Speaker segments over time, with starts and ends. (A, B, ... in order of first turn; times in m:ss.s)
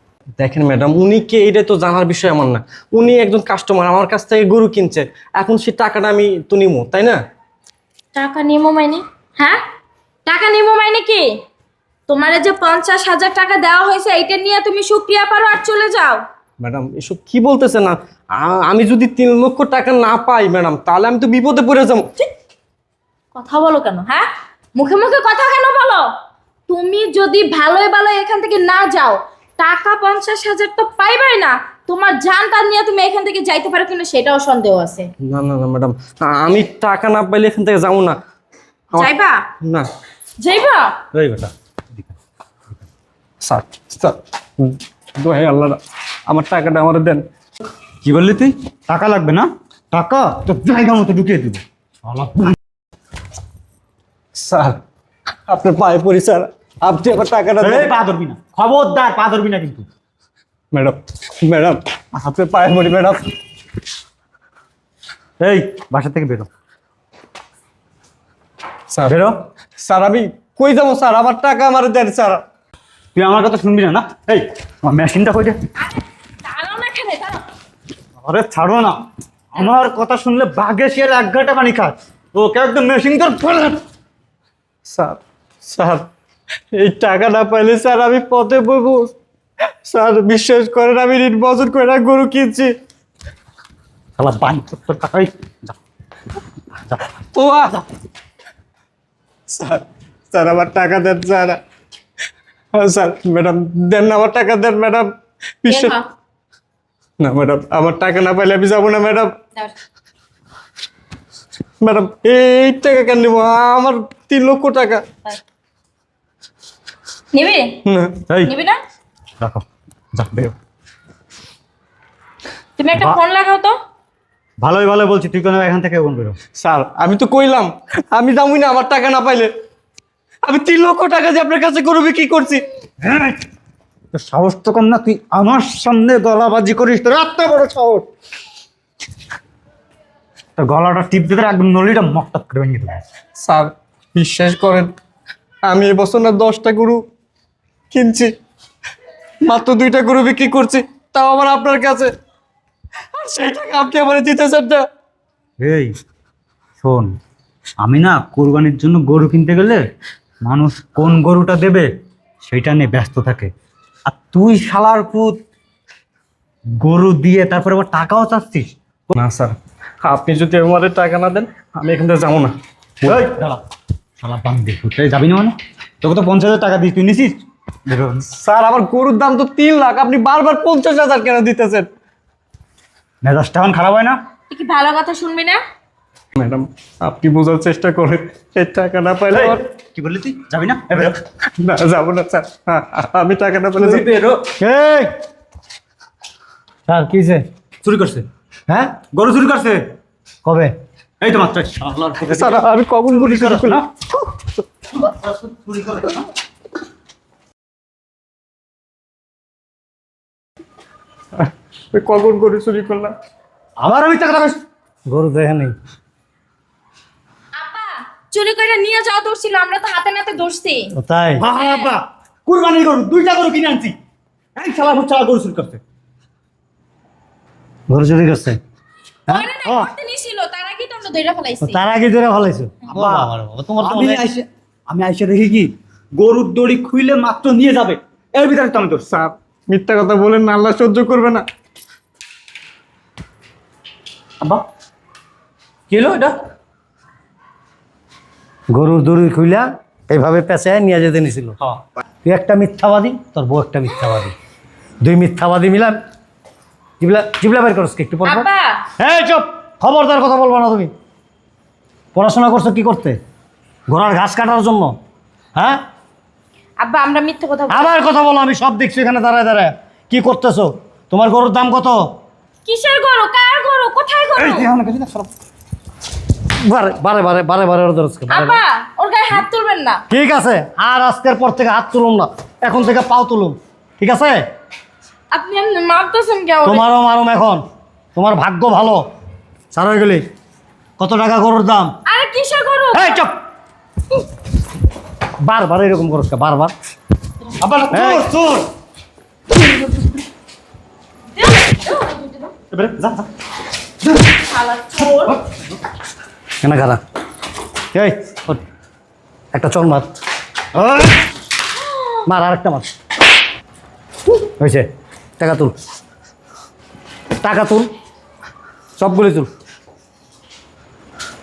0:00.4-0:07.2 A
0:08.1-0:09.6 B
0:10.2-0:11.3 B
0:12.1-0:16.2 B
0:16.6-0:22.2 A
0:23.3-0:26.1 B
0:26.7-0:35.1 B
0:35.2-0:38.2 A
0:39.0-0:39.4 B
0:39.6-0:39.9 A
0:40.4-0:41.0 B
0:41.1-0:42.1 C
0:43.4-0:47.2 A
0:48.0-0:52.6 C
0:54.4-0:54.8 A
0:55.5-0:57.9 A
0:57.6-0:59.8 C
1:00.7-1:03.3 A
1:05.4-1:06.5 C
1:08.9-1:09.2 A
1:09.1-1:09.3 C
1:09.8-1:12.4 A
1:13.1-1:15.6 C
1:15.8-1:17.4 B
1:18.2-1:19.0 C
1:19.5-1:23.8 C
1:24.8-1:26.1 A
1:26.7-1:29.1 A
1:29.8-1:32.7 A
1:34.2-1:35.7 C
1:37.3-1:37.8 A
1:39.5-1:41.6 A
1:42.7-1:45.1 A
1:45.6-1:46.0 A
1:45.7-1:46.0 B
1:47.2-1:49.3 A
1:51.8-1:55.0 A
1:57.3-1:57.8 B
1:57.8-1:58.2 A
1:58.4-1:58.8 B
1:59.4-2:00.5 C
2:02.8-2:03.7 B
2:04.6-2:06.4 C
2:06.6-2:09.5 A
2:10.4-2:12.6 A
2:13.0-2:13.4 C
2:14.1-2:18.0 C
2:20.6-2:23.0 C
2:23.4-2:24.9 A
2:25.7-2:27.0 A
2:27.9-2:28.3 A
2:29.4-2:32.1 A
2:33.1-2:34.8 A
2:35.6-2:35.9 C
2:36.8-2:37.2 C
2:37.8-2:39.8 C
2:40.4-2:41.9 C
2:42.4-2:43.5 C
2:44.0-2:45.4 C
2:46.8-2:48.7 C
2:49.1-2:53.2 A
2:53.0-2:53.6 C
2:54.2-2:58.3 C
2:58.3-3:01.9 A
3:03.2-3:04.2 C
3:04.5-3:05.6 B
3:06.4-3:09.6 A
3:09.3-3:11.1 C
3:11.4-3:14.0 A
3:13.8-3:14.5 C
3:14.6-3:15.1 D
3:16.9-3:17.4 D
3:17.8-3:18.2 C
3:18.7-3:19.0 D
3:19.1-3:19.9 C
3:20.4-3:20.7 D
3:21.2-3:22.6 C
3:22.2-3:24.6 A
3:23.1-3:23.8 C
3:25.0-3:26.2 C
3:31.4-3:33.1 A
3:33.8-3:34.6 C
3:35.1-3:35.7 D
3:37.6-3:40.9 B
3:41.0-3:41.4 D
3:41.4-3:44.0 C
3:41.5-3:41.9 B
3:44.5-3:45.8 C
3:47.9-3:48.6 D
3:49.3-3:51.8 B
3:51.6-3:54.2 D
3:52.9-3:53.3 C
3:53.8-3:59.0 C
3:59.1-4:01.4 A
4:05.9-4:06.4 C
4:08.7-4:11.6 D
4:12.2-4:14.3 D
4:15.0-4:16.0 D
4:17.0-4:18.5 D
4:18.2-4:18.8 B
4:19.0-4:20.9 D
4:22.1-4:23.2 D
4:23.9-4:24.9 D
4:25.5-4:25.8 D
4:26.8-4:28.0 B
4:27.7-4:32.0 D
4:32.6-4:34.7 B
4:34.4-4:35.3 C
4:36.6-4:38.6 D
4:38.3-4:40.0 B
4:40.1-4:44.4 D
4:45.3-4:46.8 B
4:46.6-4:47.6 D
4:48.2-4:49.0 D
4:49.7-4:50.2 D
4:51.0-4:51.9 D
4:52.0-4:53.2 B
4:52.9-4:53.3 D
4:55.4-4:56.7 D
4:57.6-4:58.7 C
4:57.9-4:58.3 D
5:01.3-5:02.5 B
5:02.7-5:03.3 C
5:04.3-5:05.4 B
5:06.6-5:07.0 D
5:07.9-5:08.6 D
5:09.5-5:10.1 D
5:10.8-5:11.1 C
5:12.2-5:12.9 D
5:14.3-5:14.8 D
5:15.4-5:15.7 D
5:17.4-5:17.9 D
5:19.0-5:19.5 D